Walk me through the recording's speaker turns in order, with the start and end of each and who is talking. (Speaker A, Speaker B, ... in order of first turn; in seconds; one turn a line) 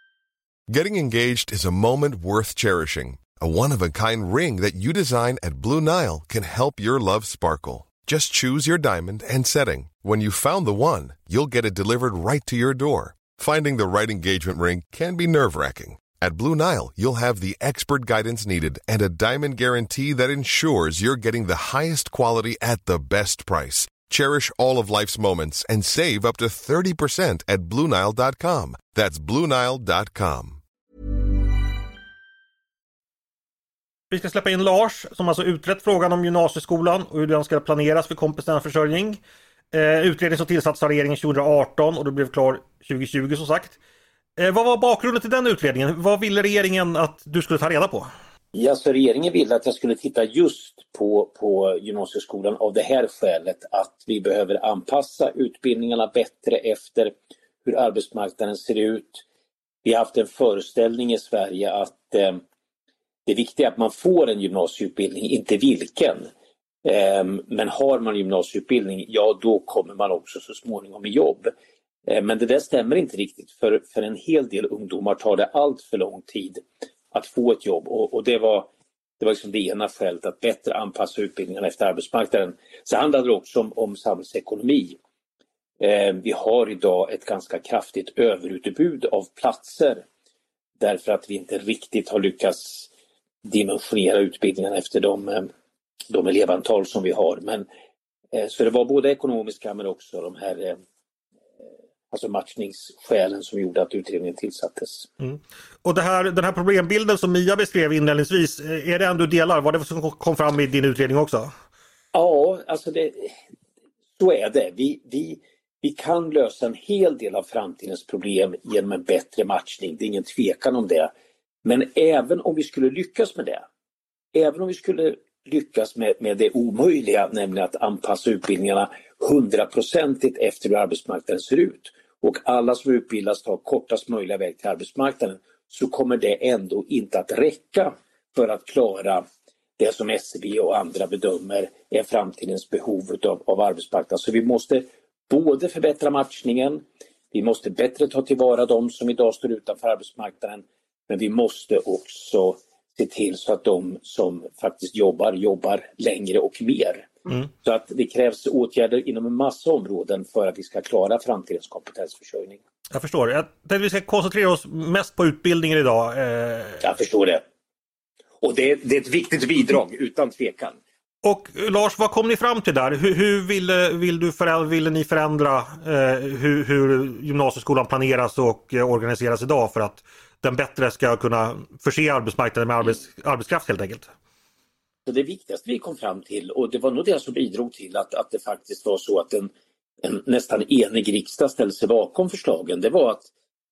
Speaker A: 0.7-30.6
Speaker B: 34.1-39.2
Speaker B: 39.7-43.8
Speaker B: 44.4-48.1
Speaker C: 48.5-59.2
Speaker C: 59.8-62.4
Speaker C: 63.2-66.3
Speaker C: 66.8-71.5
Speaker C: 72.1-85.0
Speaker C: 85.8-90.0
Speaker C: 90.8-92.9
Speaker C: 93.4-95.5
Speaker C: 96.1-97.7
Speaker C: 98.3-100.8
Speaker C: 102.1-105.1
Speaker B: 105.2-111.5
Speaker C: 112.1-113.4
Speaker C: 114.2-121.1
Speaker C: 121.6-123.6
Speaker C: 124.3-139.2
Speaker C: 139.8-162.6
Speaker B: 162.9-166.8
Speaker C: 166.8-167.4
Speaker C: 168.4-170.8
Speaker B: 171.2-184.1
Speaker C: 185.1-189.5
Speaker C: 190.0-193.3